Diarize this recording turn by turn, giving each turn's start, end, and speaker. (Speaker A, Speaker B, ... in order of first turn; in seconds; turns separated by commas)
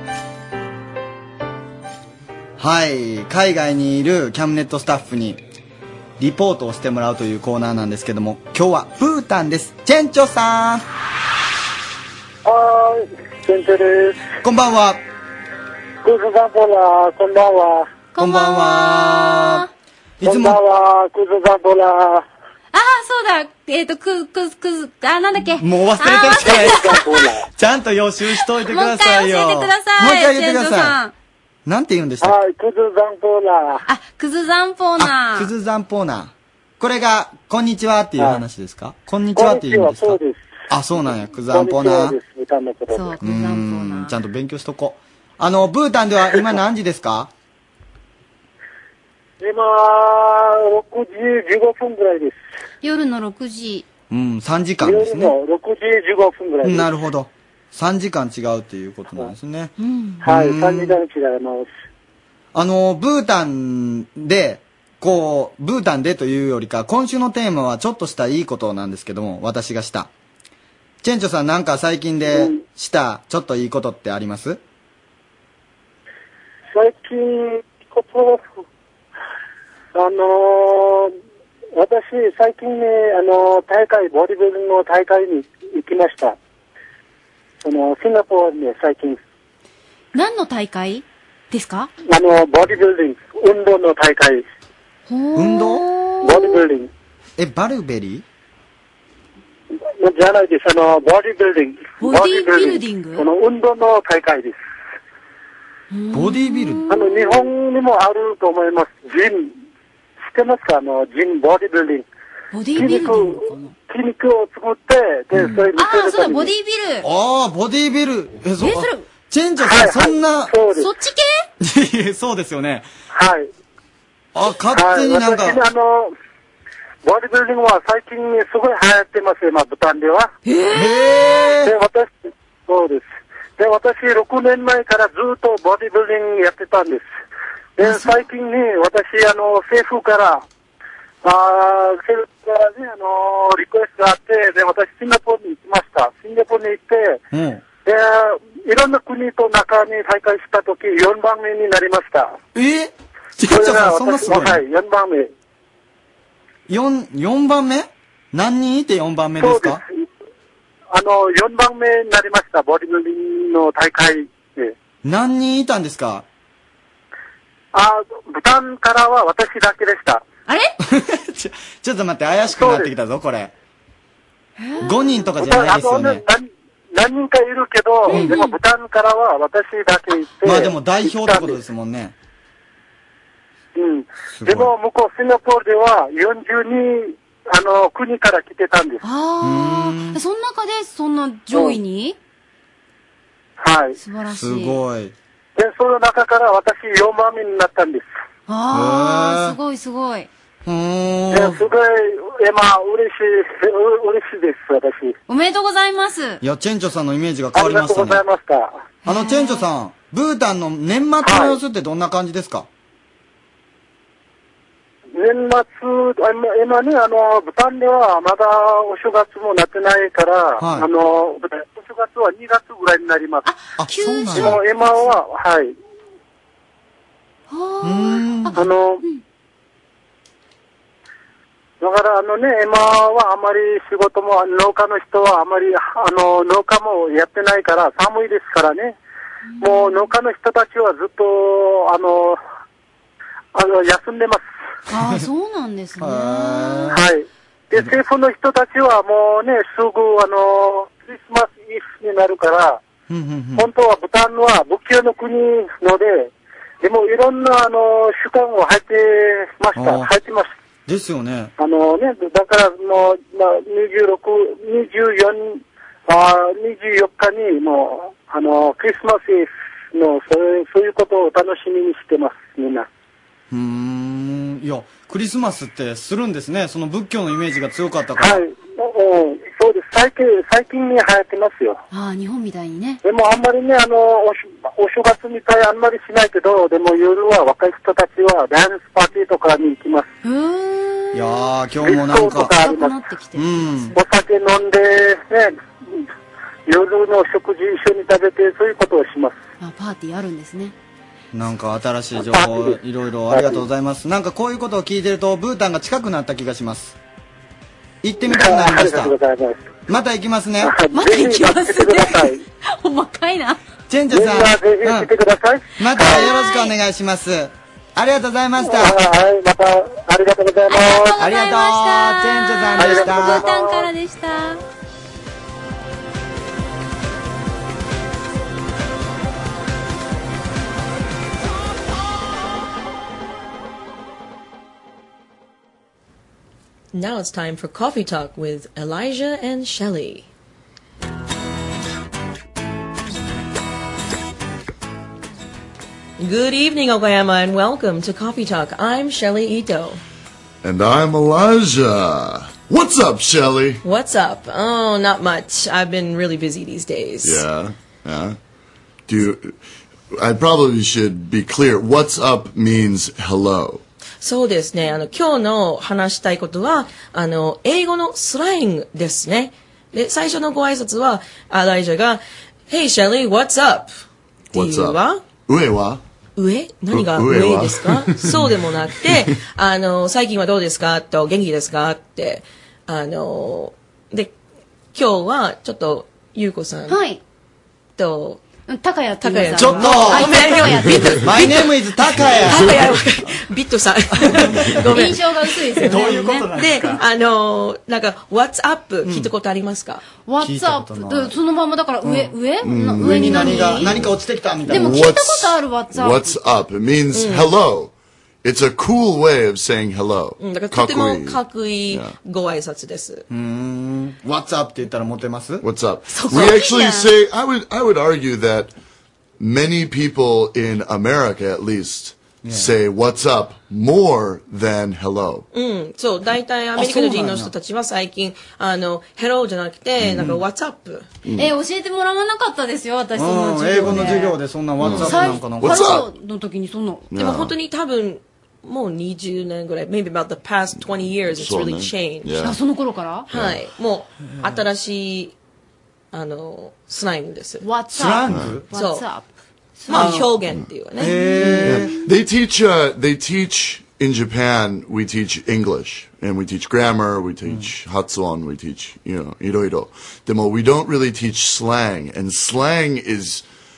Speaker A: 2.6-5.4, Speaker A: 6.2-10.8, Speaker B: 12.4-14.2, Speaker A: 14.4-15.0, Speaker B: 16.0-17.9, Speaker C: 18.1-19.7, Speaker A: 18.2-19.6, Speaker A: 20.2-20.6, Speaker B: 20.2-22.2, Speaker C: 22.7-27.0, Speaker A: 25.6-27.0, Speaker B: 26.6-27.4, Speaker A: 27.5-31.0, Speaker C: 28.6-31.1, Speaker A: 31.6-32.4, Speaker B: 32.2-33.8, Speaker C: 33.8-35.5, Speaker A: 35.0-40.2, Speaker B: 39.3-40.5, Speaker A: 40.7-42.2, Speaker B: 41.5-43.1, Speaker C: 42.9-44.1, Speaker A: 43.2-47.3, Speaker B: 49.4-52.4, Speaker C: 52.8-53.8, Speaker A: 54.1-55.3, Speaker B: 54.8-56.9, Speaker A: 56.6-61.0, Speaker C: 59.8-60.2, Speaker B: 60.2-61.7, Speaker A: 62.5-70.1, Speaker A: 71.0-74.6, Speaker B: 76.7-78.6, Speaker B: 79.9-81.1, Speaker B: 81.7-86.3, Speaker B: 87.6-89.2, Speaker C: 90.1-91.9, Speaker B: 92.1-94.4, Speaker C: 95.1-96.6, Speaker A: 95.3-95.8, Speaker B: 96.2-96.9, Speaker A: 97.4-98.2, Speaker B: 100.0-104.6, Speaker C: 102.0-103.2, Speaker C: 105.9-107.5, Speaker A: 106.1-106.8, Speaker B: 106.9-109.5, Speaker B: 110.3-112.0, Speaker C: 112.5-113.7, Speaker B: 112.8-116.5, Speaker A: 115.3-115.6, Speaker C: 115.8-117.1, Speaker A: 117.0-120.5, Speaker C: 118.6-119.0, Speaker B: 119.6-120.9, Speaker C: 120.8-121.4, Speaker A: 121.6-122.9, Speaker B: 123.1-123.5, Speaker A: 124.3-125.6, Speaker B: 124.7-126.1, Speaker B: 127.0-130.3, Speaker C: 130.4-131.5, Speaker A: 130.7-131.7, Speaker B: 131.6-137.1, Speaker B: 137.8-140.4, Speaker C: 137.8-138.1, Speaker B: 141.2-147.2, Speaker A: 147.3-147.6, Speaker B: 147.8-152.3, Speaker A: 152.5-154.6, Speaker B: 153.5-155.3, Speaker A: 156.7-159.8, Speaker B: 159.4-160.0, Speaker B: 160.9-164.7, Speaker A: 165.0-166.2, Speaker B: 167.7-170.2, Speaker C: 170.5-170.7, Speaker A: 170.8-173.5, Speaker B: 172.5-172.9, Speaker C: 174.6-175.2, Speaker A: 174.8-176.2, Speaker B: 175.4-181.6, Speaker C: 178.1-178.5, Speaker A: 180.4-182.1, Speaker B: 183.8-189.0, Speaker A: 184.3-184.7, Speaker C: 189.0-192.2, Speaker A: 189.4-190.2, Speaker B: 193.6-194.0, Speaker C: 194.0-194.8, Speaker A: 194.3-195.1, Speaker B: 195.6-198.1, Speaker C: 198.5-200.3, Speaker A: 198.7-199.6, Speaker A: 200.6-201.6, Speaker B: 201.3-205.2, Speaker C: 205.3-206.4, Speaker A: 206.4-208.2, Speaker B: 207.5-208.9, Speaker C: 209.0-209.7, Speaker A: 209.0-212.7, Speaker B: 211.2-211.6, Speaker B: 215.2-223.4, Speaker A: 220.6-220.9, Speaker C: 223.4-225.1, Speaker A: 223.8-224.6, Speaker B: 224.3-225.8, Speaker C: 227.5-229.2, Speaker A: 227.8-228.6, Speaker B: 228.5-229.0, Speaker B: 231.8-238.9, Speaker C: 239.5-240.1, Speaker B: 239.6-242.4, Speaker B: 243.5-244.4, Speaker C: 244.9-246.9, Speaker A: 246.0-247.1, Speaker B: 246.9-252.8, Speaker A: 253.1-253.7, Speaker B: 253.6-256.3, Speaker B: 256.8-260.5, Speaker A: 259.7-260.1, Speaker A: 260.9-261.5, Speaker B: 261.6-272.9, Speaker A: 273.5-278.4, Speaker B: 278.2-281.8, Speaker C: 281.9-283.0, Speaker B: 283.0-290.1, Speaker C: 290.2-291.5, Speaker A: 291.1-292.5, Speaker B: 291.8-293.0, Speaker C: 292.4-293.9, Speaker A: 293.3-293.9, Speaker B: 293.9-295.6, Speaker B: 296.7-299.4, Speaker C: 299.6-300.7, Speaker A: 301.3-306.9, Speaker B: 302.2-302.8, Speaker B: 303.3-303.6, Speaker A: 308.0-309.1, Speaker B: 308.3-309.7, Speaker A: 309.9-310.7, Speaker B: 310.6-312.4, Speaker C: 310.9-313.6, Speaker A: 313.9-315.1, Speaker B: 314.1-316.3, Speaker A: 315.8-319.0, Speaker C: 316.0-316.7, Speaker B: 318.6-321.1, Speaker C: 320.7-324.6, Speaker A: 321.2-323.4, Speaker B: 322.8-323.9, Speaker D: 336.9-340.3, Speaker D: 346.2-350.0, Speaker E: 350.6-353.8, Speaker D: 353.8-357.4, Speaker E: 357.2-358.4, Speaker E: 359.1-359.6, Speaker E: 360.1-363.8, Speaker D: 364.2-373.9, Speaker D: 374.5-375.3, Speaker E: 374.5-376.0, Speaker D: 376.4-384.3, Speaker E: 376.9-378.5, Speaker D: 384.9-387.0, Speaker C: 386.9-387.2, Speaker D: 388.0-388.4, Speaker C: 388.7-391.5, Speaker D: 389.2-391.6, Speaker A: 389.6-390.5, Speaker A: 391.2-392.9, Speaker D: 392.3-400.0, Speaker C: 394.7-396.5, Speaker A: 396.0-396.8, Speaker C: 400.2-404.0, Speaker A: 400.4-401.3, Speaker E: 402.6-404.1, Speaker A: 403.0-405.0, Speaker C: 404.7-406.4, Speaker E: 404.7-412.1, Speaker D: 407.1-407.5, Speaker D: 410.4-413.2, Speaker A: 413.3-415.6, Speaker E: 415.6-418.7, Speaker C: 416.1-417.1, Speaker E: 419.4-425.5, Speaker A: 422.4-422.7, Speaker D: 425.5-431.1, Speaker A: 426.8-427.5, Speaker E: 430.0-430.3, Speaker E: 431.2-431.5, Speaker C: 431.4-437.1, Speaker A: 433.1-435.9, Speaker E: 434.8-436.1, Speaker E: 437.1-437.5, Speaker D: 437.1-442.3, Speaker E: 440.8-442.6, Speaker C: 442.4-443.3, Speaker D: 443.3-445.3, Speaker E: 443.3-443.6, Speaker D: 446.1-447.6, Speaker C: 447.6-449.3, Speaker A: 447.9-448.6, Speaker E: 448.3-448.6, Speaker D: 448.7-449.1, Speaker C: 449.8-450.2, Speaker D: 449.9-451.8, Speaker A: 449.9-450.3, Speaker A: 451.0-451.9, Speaker C: 451.0-451.9, Speaker E: 451.6-463.4